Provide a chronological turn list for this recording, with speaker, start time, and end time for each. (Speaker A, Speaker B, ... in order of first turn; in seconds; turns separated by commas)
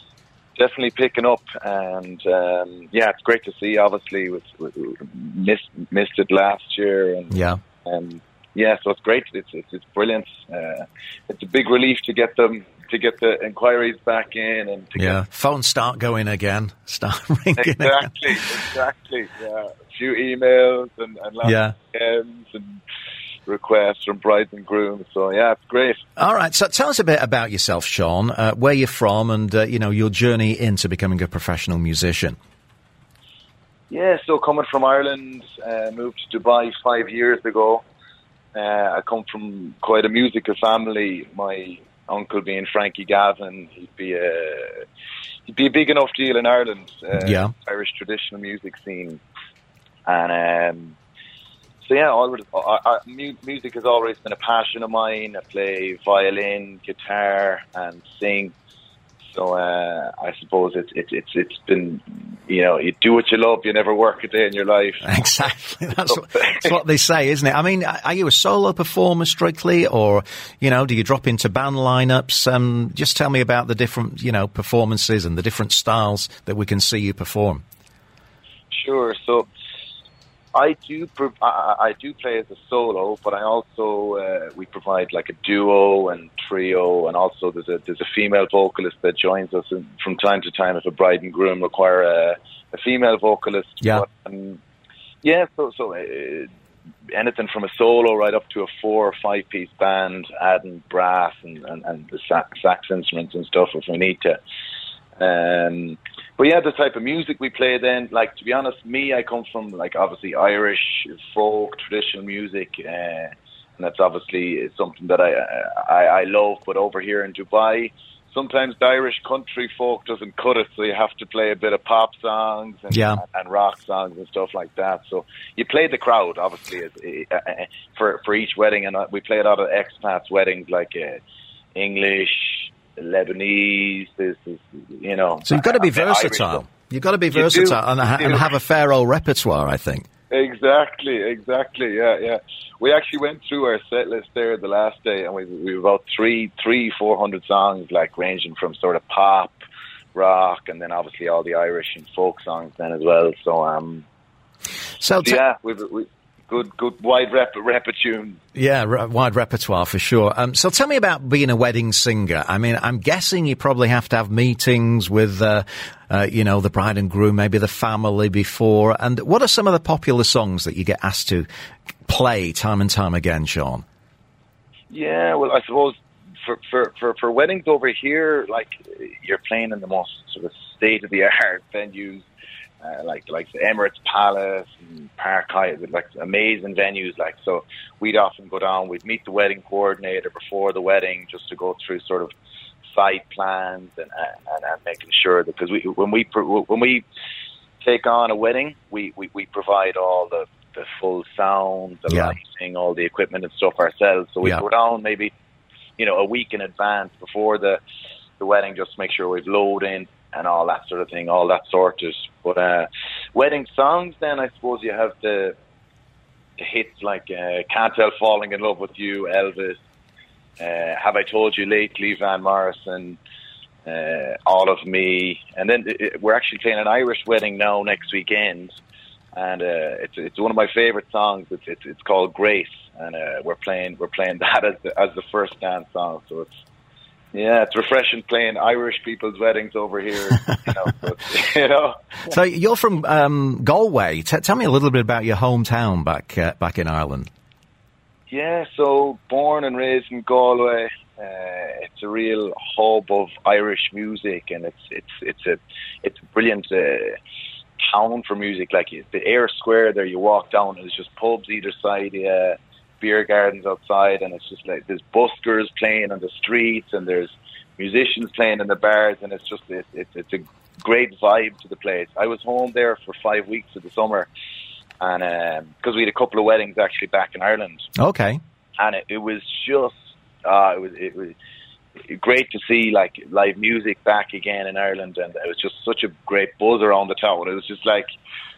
Speaker A: 0.6-15.2, Speaker B: 7.3-7.6, Speaker B: 15.0-18.4, Speaker A: 17.6-22.8, Speaker B: 21.4-21.7, Speaker A: 23.4-26.0, Speaker B: 26.2-32.4, Speaker A: 33.9-37.8, Speaker A: 38.5-44.8, Speaker A: 45.5-49.2, Speaker B: 47.2-47.5, Speaker A: 50.1-51.0, Speaker A: 51.8-58.5, Speaker A: 59.3-65.2, Speaker B: 65.0-77.6, Speaker A: 66.0-66.7, Speaker A: 78.7-79.5, Speaker A: 80.5-94.6, Speaker A: 95.2-96.5, Speaker A: 97.1-104.4, Speaker A: 105.2-131.2, Speaker B: 122.9-123.2, Speaker A: 131.7-136.6, Speaker B: 135.4-140.1, Speaker A: 137.3-138.5, Speaker A: 140.3-149.5, Speaker A: 150.1-154.0, Speaker B: 155.0-155.4, Speaker A: 155.2-158.4, Speaker B: 158.5-171.5, Speaker B: 172.1-173.8, Speaker A: 174.9-182.2, Speaker A: 182.8-192.3, Speaker A: 192.9-197.0, Speaker A: 197.8-205.3, Speaker B: 202.1-202.3, Speaker A: 206.0-207.8, Speaker A: 208.4-215.6, Speaker A: 216.6-219.8, Speaker A: 220.6-223.2, Speaker A: 223.8-228.7, Speaker A: 229.3-236.5, Speaker A: 237.3-242.1, Speaker B: 242.3-247.3, Speaker A: 248.3-257.1, Speaker A: 257.8-274.3, Speaker A: 275.0-277.9, Speaker B: 278.0-278.4, Speaker A: 278.8-281.3, Speaker A: 282.1-288.1